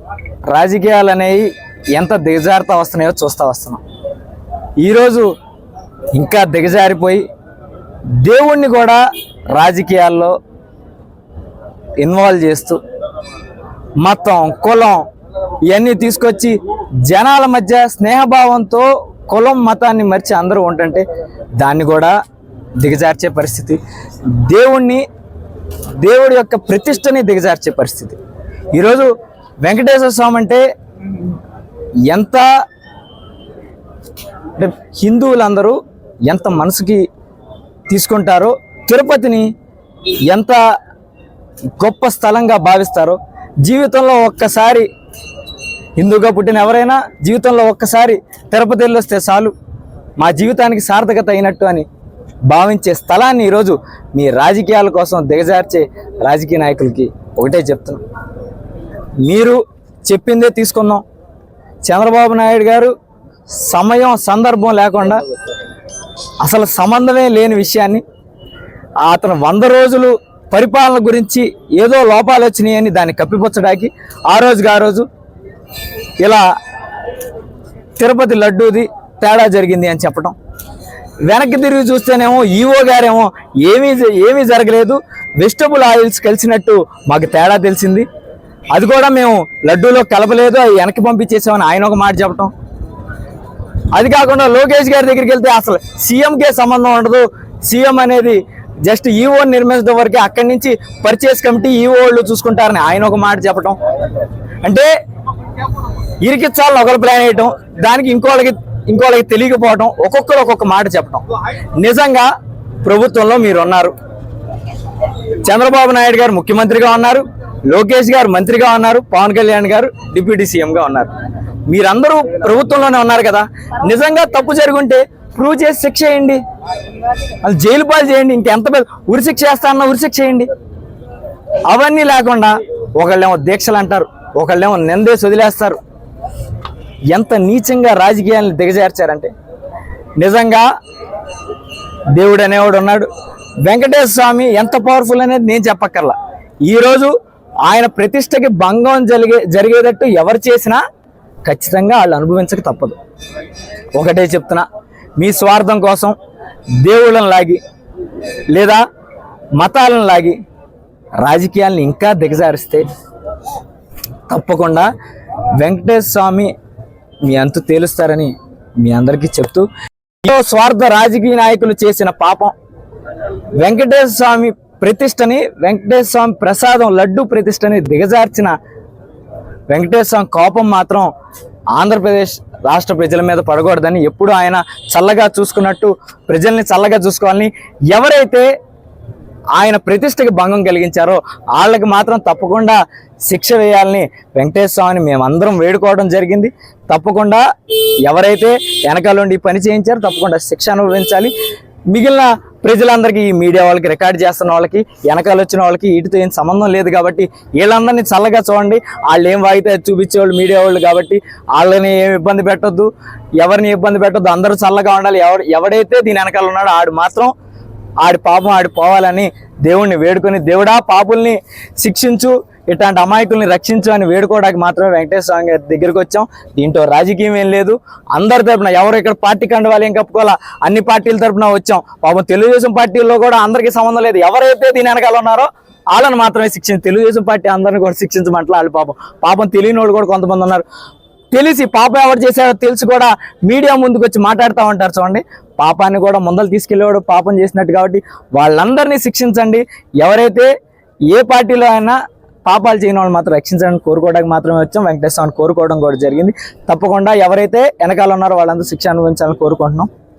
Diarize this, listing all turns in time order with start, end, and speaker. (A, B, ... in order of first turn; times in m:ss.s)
0:00.5-0:03.8 A
0:04.8-0:05.3 A
0:06.1-0:07.2 A
0:08.2-0:10.4 A
0:12.0-0:12.8 A
0:14.0-0:15.0 A
0:15.7-0:21.0 A
0:21.6-0:22.2 A
0:22.8-0:25.0 A
0:26.0-0:28.2 A
0:28.7-0:29.1 A
0:29.6-0:30.6 A
0:32.1-0:32.4 A
0:34.5-0:37.0 A
0:37.9-0:39.5 A
0:40.2-0:40.6 A
0:41.7-0:44.9 A
0:46.0-0:49.5 A
0:50.2-0:51.9 A
0:52.5-0:58.0 A
0:59.2-1:01.0 A
1:01.8-1:02.9 A
1:03.6-1:05.2 A
1:06.4-1:08.0 A
1:09.0-1:15.1 A
1:16.2-1:16.4 A
1:18.0-1:20.4 A
1:21.2-1:28.1 A
1:28.7-1:32.5 A
1:33.9-1:43.8 A
1:44.6-1:44.9 A
1:46.2-1:52.3 A
1:52.8-1:53.9 A
1:55.4-2:01.1 A
2:01.7-2:06.4 A
2:07.4-2:10.5 A
2:11.7-2:15.8 A
2:17.1-2:19.3 A
2:20.2-2:20.7 A
2:22.1-2:23.1 A
2:23.6-2:27.1 A
2:27.6-2:30.8 A
2:31.4-2:33.0 A
2:33.9-2:34.6 A
2:35.2-2:36.2 A
2:36.8-2:37.6 A
2:38.5-2:38.8 A
2:39.6-2:40.4 A
2:41.2-2:42.9 A
2:44.3-2:44.9 A
2:45.6-2:46.5 A
2:47.3-2:49.7 A
2:50.2-2:52.5 A
2:53.6-2:58.6 A
2:59.7-3:01.1 A
3:01.7-3:08.5 A
3:09.6-3:17.4 A
3:18.0-3:21.3 A
3:21.9-3:37.3 A
3:38.0-4:00.6 A
4:01.3-4:10.5 A
4:11.1-4:19.9 A